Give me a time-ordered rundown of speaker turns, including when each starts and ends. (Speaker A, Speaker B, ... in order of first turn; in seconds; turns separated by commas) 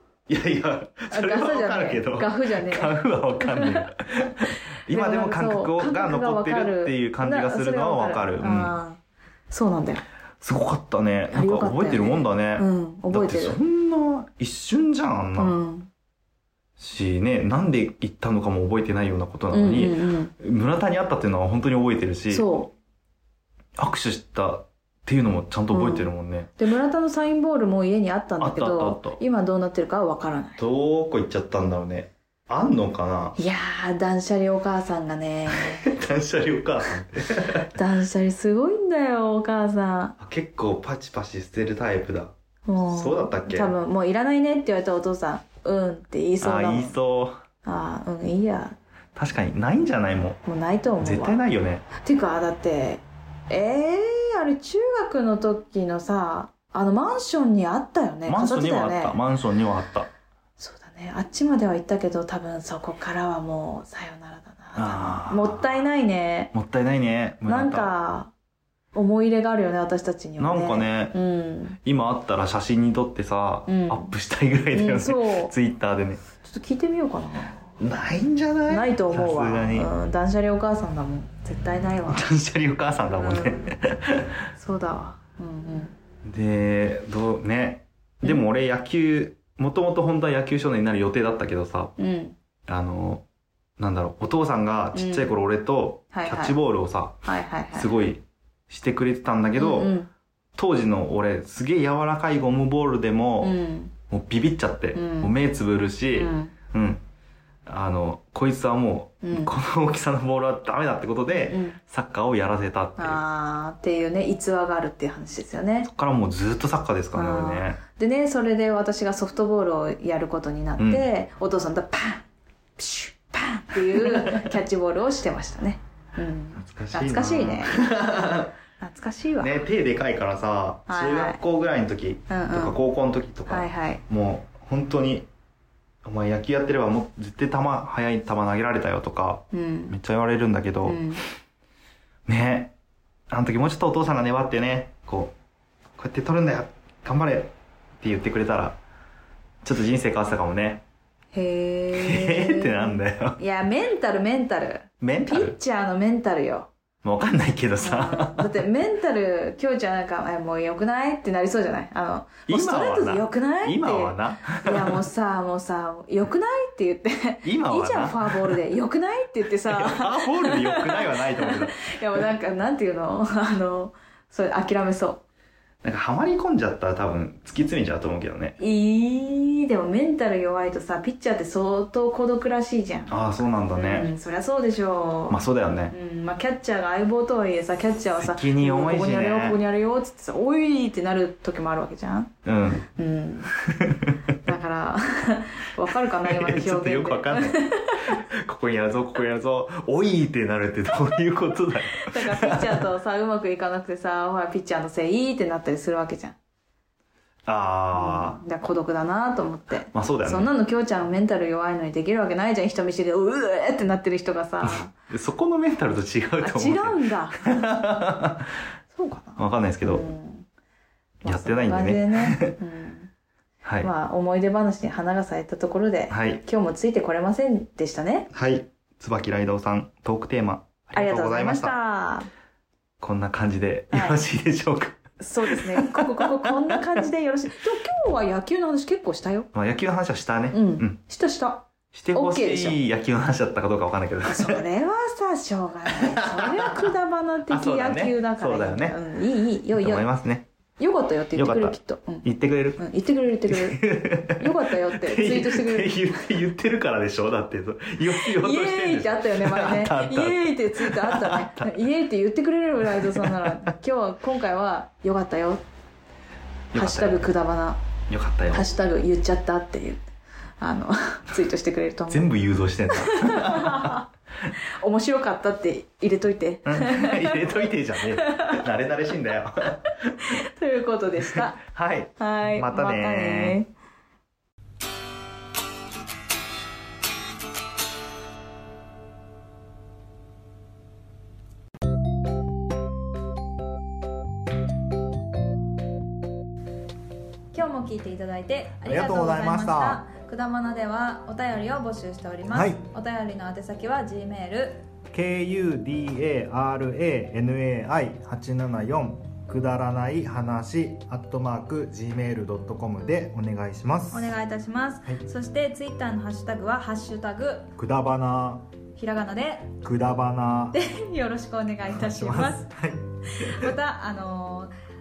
Speaker A: 0.3-8.7, Speaker B: 1.1-3.9, Speaker B: 4.9-9.0, Speaker B: 9.5-10.0, Speaker A: 10.4-15.6, Speaker B: 11.3-13.6, Speaker B: 15.3-15.9, Speaker A: 16.8-22.5, Speaker B: 19.5-20.3, Speaker B: 22.3-22.7, Speaker A: 23.8-26.5, Speaker B: 25.7-30.6, Speaker A: 28.4-29.2, Speaker A: 30.6-33.4, Speaker B: 33.4-35.9, Speaker A: 35.6-37.7, Speaker B: 37.6-40.1, Speaker A: 40.2-42.3, Speaker B: 42.6-47.0, Speaker A: 42.8-43.7, Speaker A: 46.4-47.4, Speaker B: 47.6-48.8, Speaker A: 49.1-50.4, Speaker B: 50.4-51.4, Speaker A: 51.0-51.9, Speaker B: 52.0-59.2, Speaker A: 58.3-60.1, Speaker B: 60.6-66.5, Speaker A: 64.7-65.8, Speaker A: 66.5-67.9, Speaker B: 67.4-68.3, Speaker B: 68.9-71.8, Speaker A: 70.4-71.2, Speaker A: 71.8-76.2, Speaker B: 73.7-74.1, Speaker B: 74.7-75.5, Speaker B: 76.4-77.6, Speaker A: 77.8-79.9, Speaker B: 78.7-82.3, Speaker A: 82.1-84.2, Speaker B: 83.2-83.7, Speaker B: 84.5-85.9, Speaker A: 86.2-91.9, Speaker B: 92.0-92.4, Speaker A: 92.7-93.2, Speaker A: 93.8-99.9, Speaker B: 94.9-95.3, Speaker B: 96.1-96.6, Speaker B: 97.2-98.0, Speaker B: 99.6-100.1, Speaker A: 100.5-103.5, Speaker B: 103.4-103.9, Speaker A: 104.1-107.0, Speaker B: 104.9-105.3, Speaker B: 106.1-106.5, Speaker A: 107.7-113.2, Speaker B: 109.2-109.5, Speaker B: 111.4-111.8, Speaker B: 113.0-115.9, Speaker A: 115.8-117.8, Speaker B: 117.1-122.2, Speaker A: 120.8-121.0, Speaker B: 122.8-127.8, Speaker A: 123.9-124.5, Speaker A: 126.6-128.5, Speaker B: 128.8-129.6, Speaker A: 129.4-135.3, Speaker B: 130.9-131.4, Speaker B: 132.3-132.8, Speaker B: 133.5-134.0, Speaker A: 136.0-141.1, Speaker B: 139.5-139.9, Speaker B: 140.8-141.2, Speaker A: 142.3-142.7, Speaker A: 143.3-145.3, Speaker A: 146.0-148.8, Speaker A: 149.6-150.8, Speaker B: 151.3-156.7, Speaker A: 151.9-153.4, Speaker A: 155.0-155.5, Speaker A: 157.0-158.5, Speaker B: 157.8-175.2, Speaker A: 162.5-165.0, Speaker A: 167.4-168.6, Speaker A: 169.7-172.2, Speaker A: 175.8-178.6, Speaker B: 178.6-185.4, Speaker A: 183.1-184.1, Speaker A: 185.3-185.9, Speaker B: 185.9-192.3, Speaker A: 188.1-189.6, Speaker A: 192.4-192.8, Speaker B: 192.9-193.5, Speaker A: 193.7-194.1, Speaker B: 194.4-198.2, Speaker A: 196.0-202.9, Speaker B: 201.9-206.4, Speaker A: 207.4-208.4, Speaker B: 207.9-214.9, Speaker A: 209.9-210.5, Speaker A: 214.6-218.5, Speaker B: 216.4-217.5, Speaker B: 218.9-220.5, Speaker A: 219.4-220.1, Speaker A: 221.2-222.5, Speaker B: 221.2-223.1, Speaker A: 223.6-223.9, Speaker B: 223.8-228.3, Speaker A: 226.1-226.4, Speaker A: 228.3-231.8, Speaker B: 230.9-232.3, Speaker A: 233.0-236.8, Speaker B: 233.9-234.2, Speaker B: 235.2-239.5, Speaker A: 239.5-241.0, Speaker B: 240.5-242.8, Speaker A: 241.9-244.6, Speaker B: 244.2-250.0, Speaker A: 246.0-246.9, Speaker A: 247.5-249.0, Speaker A: 249.7-250.5, Speaker B: 250.8-252.2, Speaker A: 251.3-252.8, Speaker B: 252.8-256.1, Speaker A: 253.5-261.8, Speaker B: 258.1-265.6, Speaker A: 262.9-263.5, Speaker A: 266.7-267.3, Speaker B: 266.7-267.8, Speaker A: 268.1-268.7, Speaker B: 268.5-270.0, Speaker B: 270.6-272.3, Speaker A: 272.1-274.0, Speaker B: 272.9-274.1, Speaker B: 274.8-278.6, Speaker A: 276.7-280.1, Speaker B: 280.3-281.6, Speaker A: 281.2-283.6, Speaker B: 282.2-283.7, Speaker B: 297.5-304.8, Speaker A: 298.9-300.0, Speaker A: 302.5-302.8, Speaker A: 305.1-314.3, Speaker B: 314.1-317.7, Speaker A: 317.8-318.6, Speaker B: 318.9-319.8, Speaker A: 319.8-320.8, Speaker B: 320.7-322.7, Speaker A: 321.9-323.7, Speaker B: 323.3-324.7